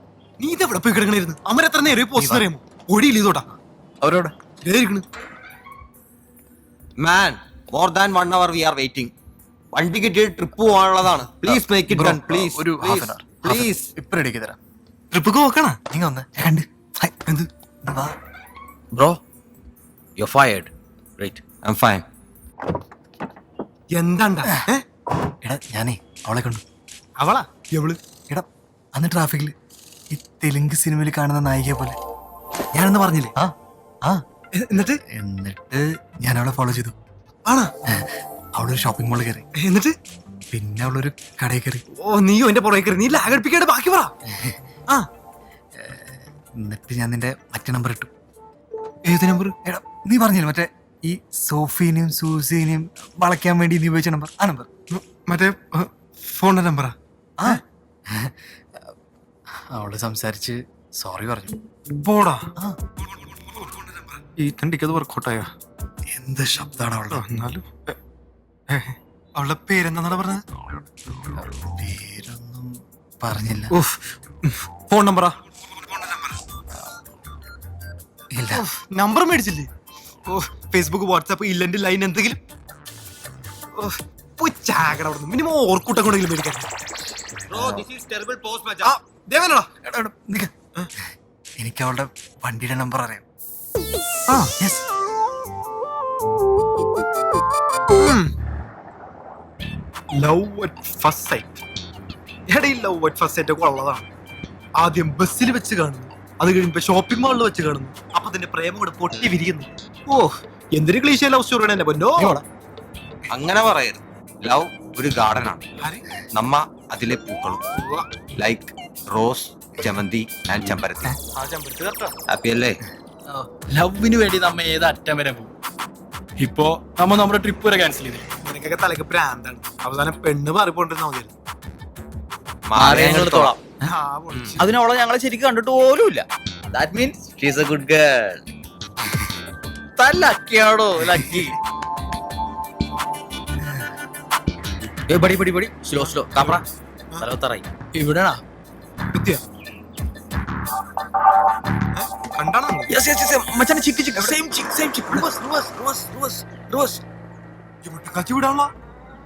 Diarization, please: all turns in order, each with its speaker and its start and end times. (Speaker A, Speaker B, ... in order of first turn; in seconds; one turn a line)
Speaker A: 0.4-3.5
Speaker B: 2.2-2.5
Speaker B: 4.0-4.3
Speaker A: 4.6-5.0
Speaker C: 7.0-9.1
Speaker C: 9.7-13.9
Speaker B: 11.4-14.6
Speaker A: 15.1-15.8
Speaker B: 15.9-17.1
Speaker B: 17.9-18.1
Speaker D: 18.9-19.2
Speaker D: 20.2-21.4
Speaker C: 21.6-22.0
Speaker A: 23.9-24.8
Speaker B: 25.4-26.6
Speaker A: 27.2-28.0
Speaker B: 28.3-29.5
Speaker B: 30.1-32.0
Speaker B: 32.7-33.5
Speaker A: 34.5-35.0
Speaker B: 35.1-37.0
Speaker A: 37.5-37.7
Speaker B: 37.9-39.5
Speaker A: 39.5-39.9
Speaker B: 40.5-41.8
Speaker A: 41.9-44.1
Speaker B: 45.8-48.1
Speaker A: 49.0-49.6
Speaker B: 49.6-54.7
Speaker A: 54.9-57.0
Speaker B: 57.4-58.4
Speaker B: 59.7-61.5
Speaker A: 62.0-62.5
Speaker A: 64.4-65.5
Speaker B: 66.1-67.2
Speaker A: 67.1-68.0
Speaker A: 68.7-70.4
Speaker B: 71.3-73.8
Speaker A: 73.7-75.4
Speaker B: 78.3-78.6
Speaker A: 78.5-79.7
Speaker A: 80.3-82.4
Speaker A: 83.8-86.7
Speaker B: 87.5-87.8
Speaker C: 87.5-88.9
Speaker A: 88.8-89.7
Speaker B: 89.8-90.5
Speaker B: 91.6-93.3
Speaker B: 94.6-94.8
Speaker A: 98.0-98.3
Speaker A: 100.2-101.6
Speaker A: 102.5-104.1
Speaker A: 104.8-112.4
Speaker C: 113.3-115.7
Speaker C: 116.3-117.6
Speaker A: 117.8-118.2
Speaker C: 118.3-121.2
Speaker E: 121.4-122.1
Speaker C: 122.3-122.8
Speaker E: 123.3-125.5
Speaker E: 126.4-128.2
Speaker A: 128.4-131.3
Speaker C: 132.7-133.6
Speaker D: 132.8-133.6
Speaker A: 133.8-134.7
Speaker D: 134.6-138.4
Speaker D: 140.0-141.6
Speaker D: 145.1-146.6
Speaker A: 146.4-146.6
Speaker D: 147.2-147.7
Speaker E: 147.9-148.4
Speaker A: 149.1-149.4
Speaker A: 151.9-152.9
Speaker D: 152.9-157.0
Speaker A: 154.1-154.4
Speaker A: 155.1-155.7
Speaker A: 157.8-158.7